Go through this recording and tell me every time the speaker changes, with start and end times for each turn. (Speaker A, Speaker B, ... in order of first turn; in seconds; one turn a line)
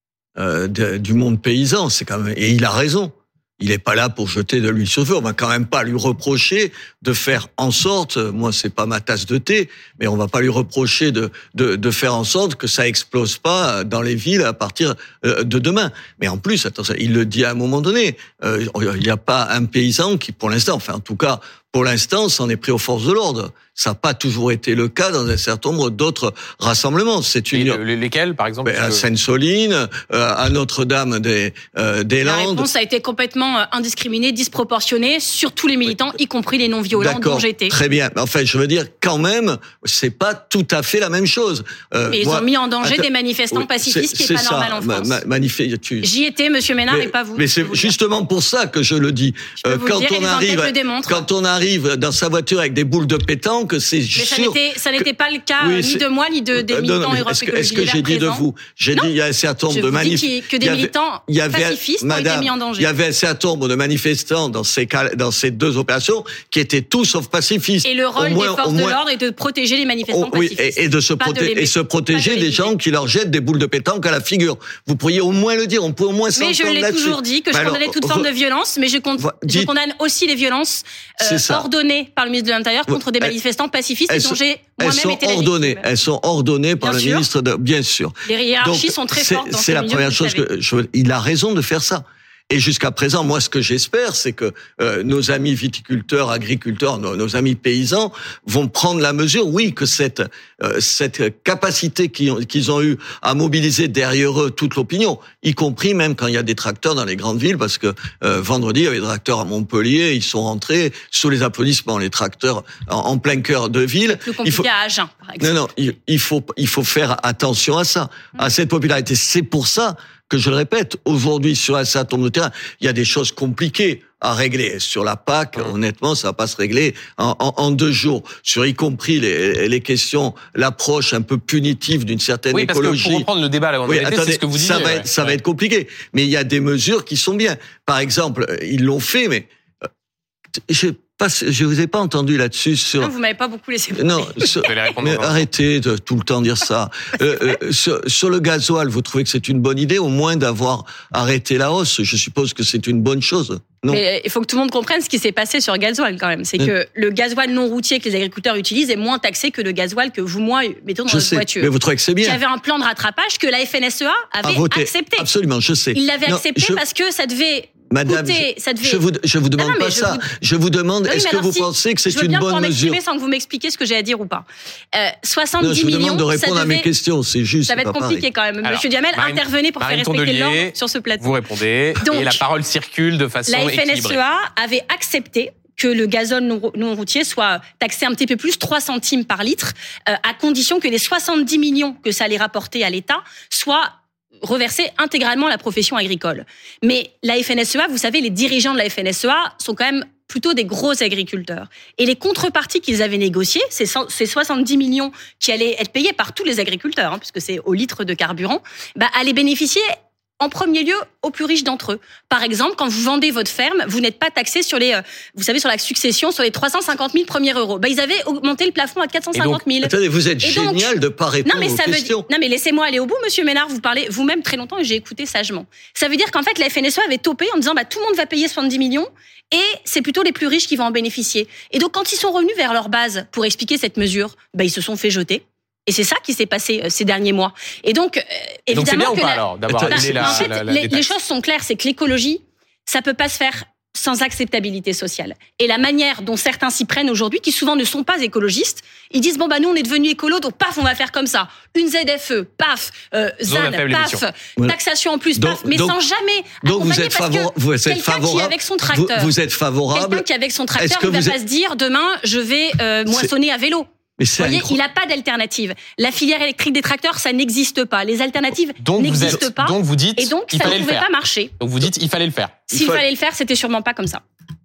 Speaker A: 0.3-27.8
Speaker B: 27.5-29.0
Speaker A: 28.6-32.7
Speaker C: 32.2-37.7
Speaker A: 36.9-46.1
Speaker C: 42.1-45.2
Speaker C: 46.0-47.9
Speaker A: 46.9-55.1
Speaker C: 49.6-51.2
Speaker C: 54.1-59.1
Speaker A: 55.6-56.0
Speaker A: 56.5-69.0
Speaker C: 59.7-62.9
Speaker C: 67.8-72.7
Speaker A: 70.1-78.3
Speaker C: 76.3-85.8
Speaker A: 79.2-79.7
Speaker A: 81.2-81.7
Speaker A: 82.9-83.3
Speaker A: 84.1-114.7
Speaker C: 86.8-87.3
Speaker C: 88.2-90.4
Speaker C: 114.1-115.6
Speaker A: 115.4-133.3
Speaker B: 132.5-135.4
Speaker A: 133.9-139.5
Speaker A: 140.7-143.1
Speaker C: 143.0-144.5
Speaker A: 143.9-154.0
Speaker B: 144.6-145.5
Speaker C: 153.9-161.7
Speaker A: 161.1-162.4
Speaker C: 162.2-165.3
Speaker A: 164.4-166.8
Speaker C: 165.9-169.0
Speaker A: 167.9-173.0
Speaker C: 169.6-170.2
Speaker C: 171.1-176.9
Speaker A: 175.6-178.2
Speaker C: 177.7-181.3
Speaker B: 178.6-184.2
Speaker C: 182.0-182.4
Speaker C: 183.5-209.9
Speaker C: 210.4-220.9
Speaker B: 219.3-219.6
Speaker A: 219.8-222.3
Speaker C: 221.4-259.3
Speaker B: 238.7-241.1
Speaker A: 239.7-240.5
Speaker B: 253.5-254.2
Speaker A: 255.3-256.0
Speaker A: 256.6-260.2
Speaker C: 259.9-271.5
Speaker A: 260.8-261.4
Speaker A: 263.1-263.3
Speaker A: 264.2-264.8
Speaker B: 268.8-271.1
Speaker B: 271.6-272.5
Speaker C: 272.7-274.2
Speaker A: 272.7-273.0